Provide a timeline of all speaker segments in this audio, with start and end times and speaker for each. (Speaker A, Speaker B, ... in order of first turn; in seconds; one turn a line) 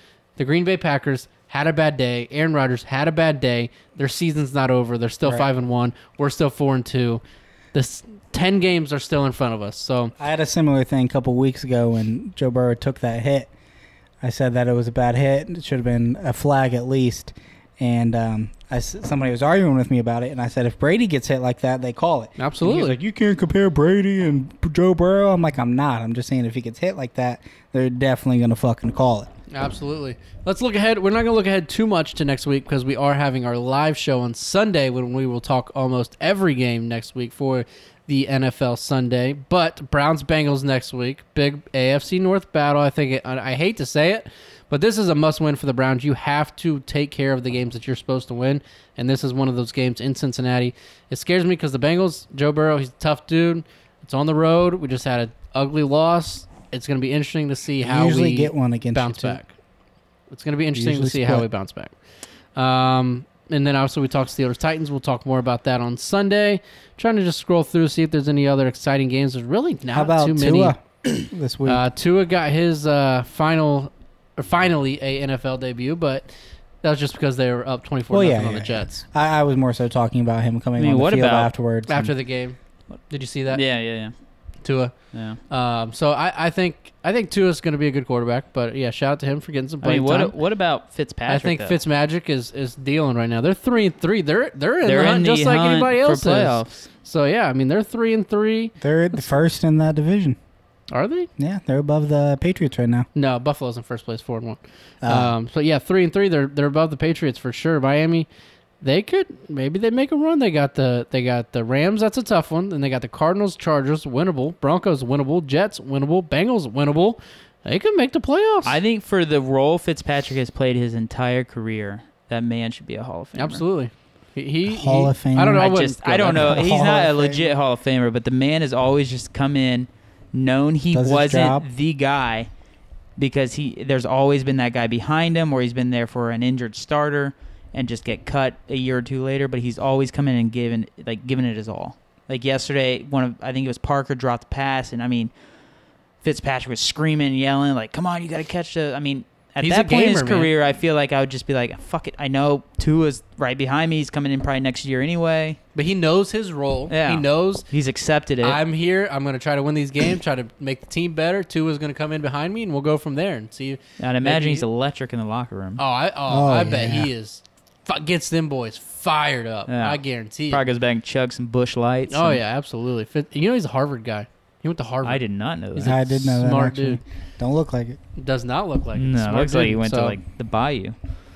Speaker A: 0.4-7.2
Speaker A: 7.7-10.1
Speaker B: 10.2-13.5
Speaker B: 14.2-29.3
Speaker A: 22.4-23.0
Speaker A: 29.5-59.5
Speaker B: 57.8-59.4
Speaker A: 60.3-61.9
Speaker B: 60.8-61.5
Speaker A: 62.6-76.3
Speaker B: 69.9-71.8
Speaker A: 76.8-78.9
Speaker B: 78.1-82.1
Speaker C: 80.8-81.5
Speaker A: 81.9-82.6
Speaker A: 83.1-83.6
Speaker C: 83.5-84.1
Speaker A: 84.6-84.9
Speaker C: 85.1-85.4
Speaker A: 85.5-90.3
Speaker C: 89.8-91.8
Speaker A: 91.3-99.4
Speaker C: 94.8-96.9
Speaker B: 98.8-100.4
Speaker A: 100.9-101.3
Speaker B: 101.4-103.1
Speaker A: 103.2-108.3
Speaker B: 105.0-105.3
Speaker A: 108.8-118.8
Speaker C: 118.7-123.6
Speaker A: 123.3-126.9
Speaker B: 124.7-127.5
Speaker C: 125.6-132.5
Speaker B: 130.9-131.7
Speaker C: 133.2-145.3
Speaker C: 146.2-155.6
Speaker A: 149.6-150.5
Speaker A: 155.8-157.7
Speaker C: 156.9-158.6
Speaker A: 158.4-164.7
Speaker C: 164.0-165.8
Speaker A: 165.8-170.6
Speaker B: 166.3-167.1
Speaker C: 169.7-172.4
Speaker A: 172.1-175.2
Speaker C: 175.0-176.1
Speaker B: 175.8-178.0
Speaker A: 175.8-177.0
Speaker A: 178.2-180.2
Speaker C: 178.9-181.0